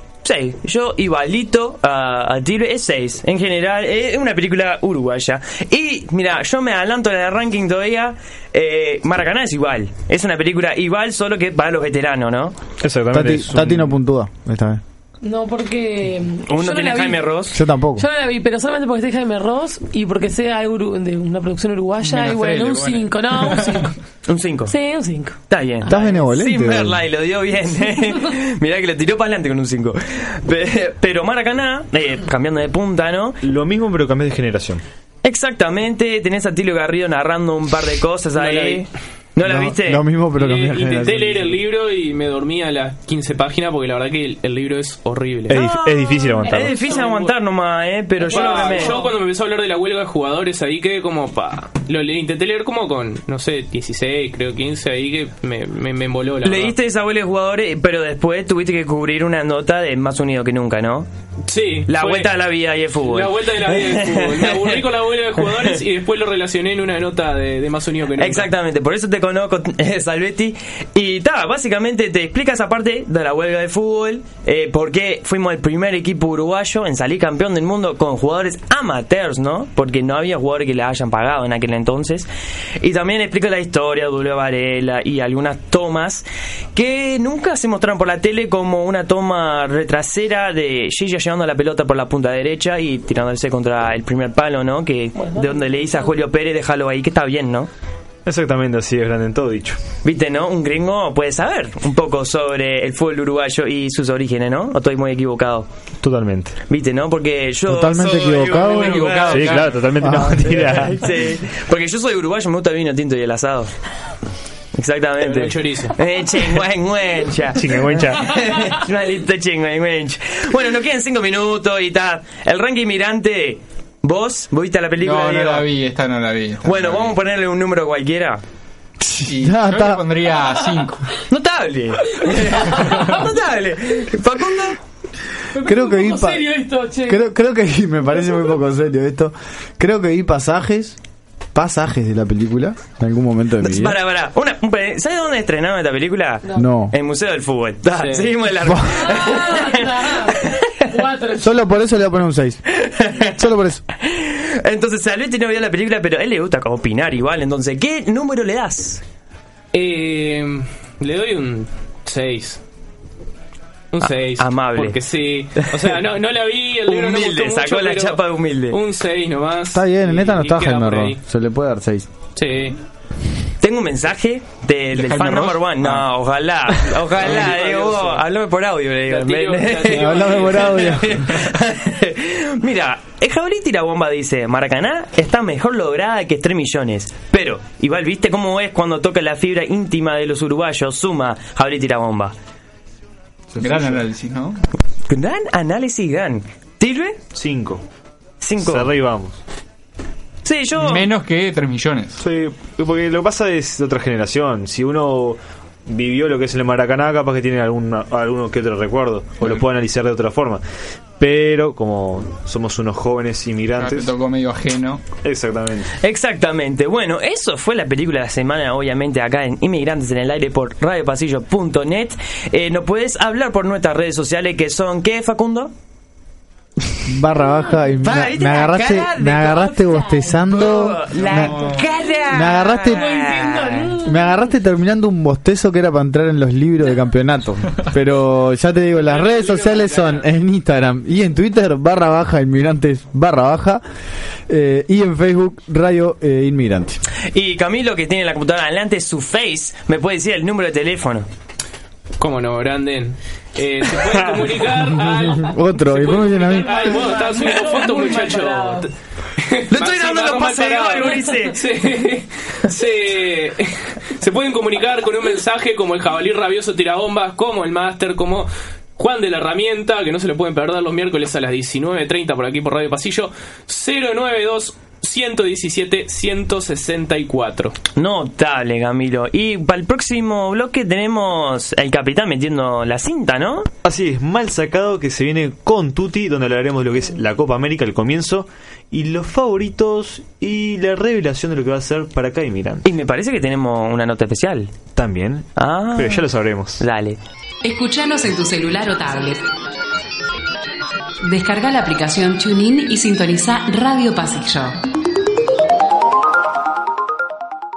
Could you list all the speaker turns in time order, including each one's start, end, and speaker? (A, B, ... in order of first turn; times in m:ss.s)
0:00.2-0:12.6 A
0:12.8-0:14.0 B
0:13.1-0:14.8 C
0:15.2-0:17.2 D
0:16.4-0:17.6 A
0:17.5-0:18.1 C
0:18.0-0:24.0 D
0:22.0-0:23.8 E
0:24.3-0:24.7 A
0:24.7-0:25.9 D
0:25.5-0:33.4 A
0:25.9-0:27.0 C
0:33.4-0:34.8 B
0:35.2-0:40.0 A
0:38.4-0:38.8 F
0:39.4-0:41.6 C
0:40.4-0:45.6 F
0:45.5-0:46.9 B
0:46.5-0:49.0 A
0:46.9-0:47.3 F
0:48.2-0:56.8 F
0:48.4-0:49.0 D
0:56.4-1:01.1 A
1:01.5-1:02.3 F
1:01.9-1:04.8 A
1:03.0-1:08.5 F
1:08.2-1:22.3 A
1:22.8-1:37.7 A
1:35.2-1:35.6 D
1:38.2-1:39.8 B
1:40.0-1:45.7 A
1:46.0-1:46.6 B
1:46.7-1:49.6 A
1:47.7-1:49.0 C
1:48.5-1:49.8 E
1:49.0-1:50.9 B
1:50.0-1:50.5 C
1:50.4-1:53.7 A
1:54.7-2:05.7 A
1:55.2-1:55.9 F
1:57.6-1:58.2 B
2:05.0-2:07.2 E
2:06.6-2:08.4 A
2:09.0-2:10.0 C
2:09.3-2:11.1 E
2:11.3-2:14.8 A
2:15.5-2:17.2 D
2:15.6-2:16.5 C
2:17.1-2:21.0 C
2:21.6-2:24.0 C
2:23.6-2:30.8 A
2:26.6-2:27.0 C
2:28.0-2:28.4 F
2:28.6-2:29.1 C
2:29.0-2:31.5 D
2:31.4-2:32.6 C
2:32.8-2:33.5 A
2:33.2-2:33.8 C
2:34.0-2:39.0 A
2:39.7-2:42.6 F
2:43.9-2:51.2 F
2:44.1-2:45.0 A
2:46.8-2:48.8 A
2:49.7-2:52.1 C
2:52.4-2:52.8 F
2:53.6-3:12.4 A
2:54.9-2:56.1 E
2:57.2-2:58.2 F
2:59.1-3:01.0 F
2:59.8-3:01.3 C
3:13.6-3:14.6 E
3:13.6-3:13.9 B
3:15.1-3:17.2 A
3:17.3-3:17.8 B
3:18.4-3:18.9 A
3:18.6-3:19.4 B
3:20.4-3:21.1 A
3:20.8-3:22.2 E
3:22.2-3:30.6 B
3:31.2-3:34.1 B
3:33.8-3:35.0 E
3:35.2-3:35.9 B
3:36.0-3:45.7 A
3:47.0-3:51.6 C
3:48.0-3:49.8 A
3:49.9-3:50.3 D
3:50.4-3:54.0 A
3:51.4-3:51.9 E
3:52.3-3:53.1 C
3:52.9-3:54.4 D
3:54.0-4:03.8 C
3:59.0-4:00.3 F
4:04.5-4:07.0 C
4:07.3-4:11.3 A
4:12.2-4:18.9 F
4:15.0-4:17.0 C
4:16.6-4:18.9 D
4:19.6-4:37.7 F
4:19.7-4:21.6 A
4:38.0-4:43.7 A
4:43.8-4:52.8 B
4:52.8-4:54.7 A
4:55.0-4:56.8 B
4:55.6-4:57.2 A
4:57.6-4:59.4 G
5:01.2-5:04.8 G